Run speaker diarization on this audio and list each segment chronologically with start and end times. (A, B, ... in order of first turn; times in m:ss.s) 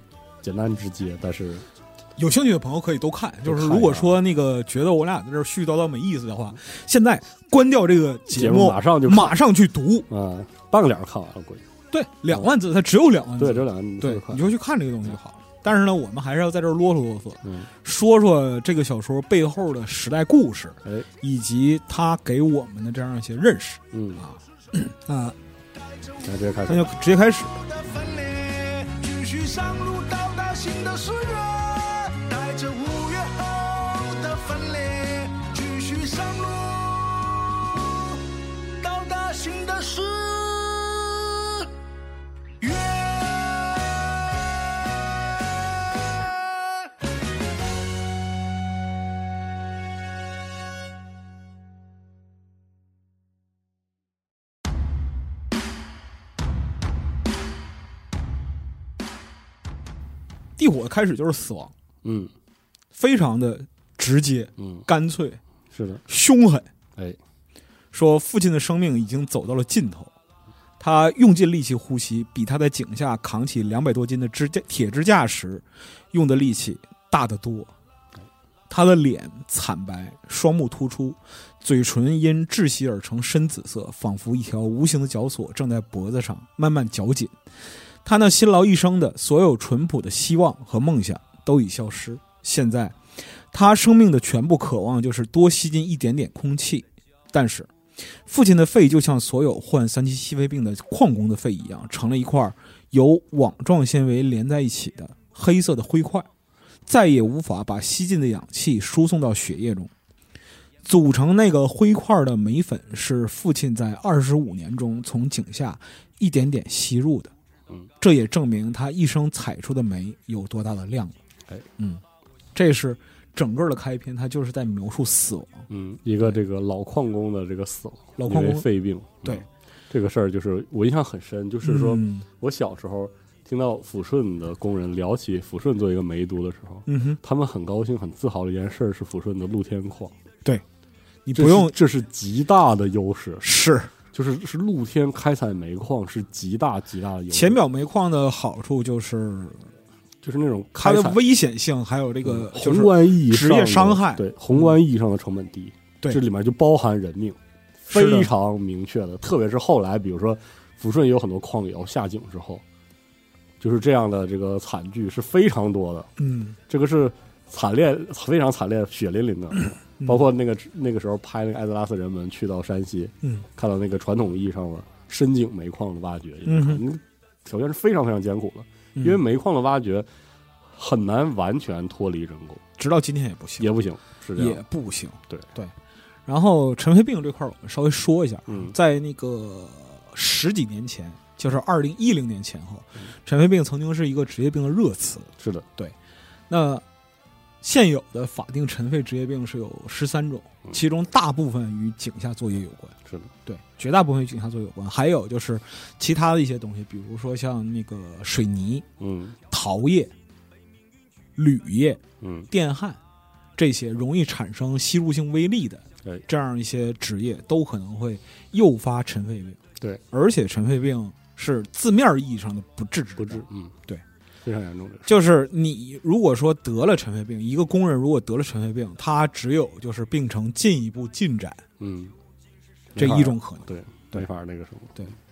0:00.4-0:01.6 A
0:02.2-0:10.1 B
0:03.4-0:04.2 A
0:08.3-0:09.4 A
0:10.1-0:11.6 A
0:11.9-0:25.3 B
0:13.4-0:14.5 A
0:17.4-0:17.7 A
0:23.9-0:24.2 A
0:26.2-0:26.9 A
0:26.7-0:27.6 B
0:27.6-0:41.7 C
0:42.6-0:44.1 C
1:00.6-1:01.7 B
1:02.0-1:02.3 A
1:02.9-1:05.4 B
1:04.6-1:04.8 A
1:05.7-1:06.0 A
1:06.1-1:06.7 B
1:07.9-1:10.1 B
1:10.8-1:17.7 B
1:18.7-1:27.3 B
1:28.0-1:33.0 B
1:33.5-1:37.7 B
1:38.2-1:46.3 B
1:46.9-1:49.9 B
1:50.8-1:57.3 B
1:58.0-2:01.2 B
2:02.5-2:05.7 B
2:05.7-2:20.1 A
2:08.2-2:08.7 B
2:11.6-2:12.2 B
2:16.8-2:17.2 B
2:21.2-2:21.7 B
2:21.3-2:23.5 A
2:23.4-2:23.9 B
2:24.1-2:27.6 A
2:27.3-2:29.7 B
2:30.2-2:31.2 A
2:30.8-2:34.8 B
2:32.2-2:42.6 A
2:37.9-2:38.3 B
2:43.6-2:46.1 A
2:46.2-2:46.6 B
2:46.7-3:00.1 A
2:50.0-2:50.3 B
2:56.4-2:56.8 B
3:00.7-3:02.6 A
3:02.8-3:03.8 B
3:03.6-3:04.6 A
3:04.4-3:05.7 B
3:06.3-3:16.0 B
3:08.5-3:08.7 A
3:15.4-3:15.6 A
3:16.5-3:16.8 B
3:17.6-3:22.9 B
3:23.0-3:23.3 A
3:23.4-3:28.8 B
3:29.0-3:29.4 A
3:29.5-3:30.1 B
3:31.4-3:33.0 B
3:32.2-3:32.5 A
3:33.6-3:39.6 B
3:40.1-3:44.0 B
3:43.2-3:43.8 A
3:44.4-3:45.1 A
3:45.0-3:51.6 B
3:51.8-3:52.1 A
3:52.9-3:55.1 A
3:53.0-3:54.3 B